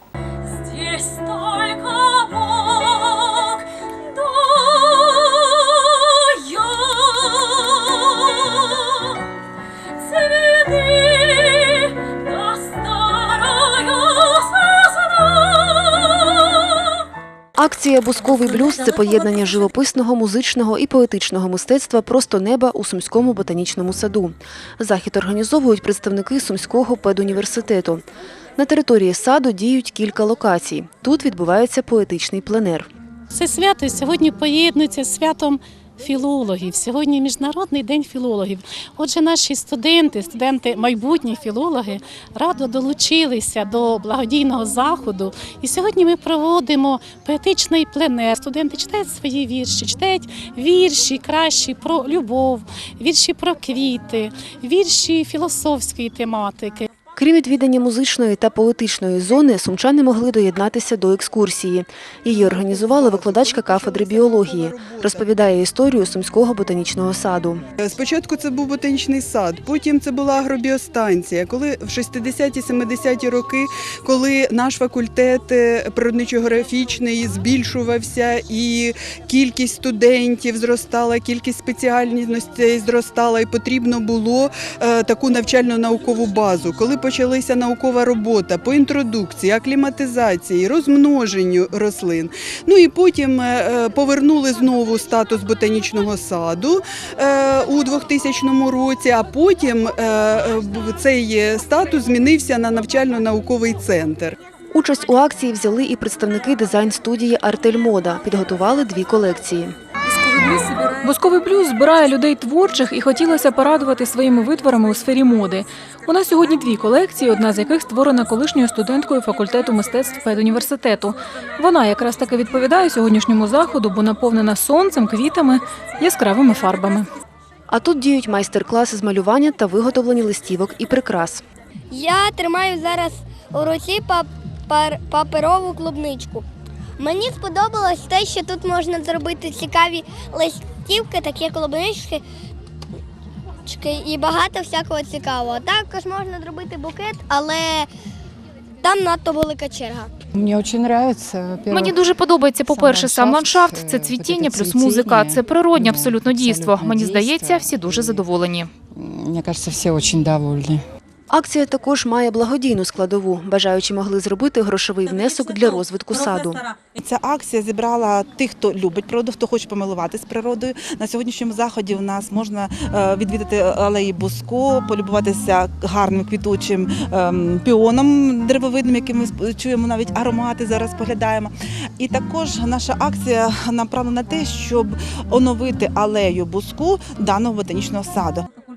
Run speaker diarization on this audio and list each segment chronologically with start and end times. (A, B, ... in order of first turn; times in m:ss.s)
0:00.6-0:01.7 A
0:04.6-0:05.3 A
0:06.0-0:07.6 A
0:10.3-0:10.7 A
0:11.4-0:11.9 A
0:17.6-0:28.0 B
0:28.6-0:32.9 B
0:33.3-0:56.9 A
0:57.2-1:07.6 B
1:02.3-1:05.3 C
1:07.8-1:44.4 C
1:44.7-1:49.7 B
1:51.0-2:07.1 D
2:07.7-2:11.4 B
2:11.9-2:16.4 E
2:17.0-2:22.2 E
2:23.7-2:27.9 E
2:28.8-2:30.1 E
2:30.3-2:32.0 F
2:31.7-2:38.7 G
2:32.6-2:38.3 F
2:38.9-2:40.8 F
2:41.3-2:46.6 B
2:46.9-3:08.5 H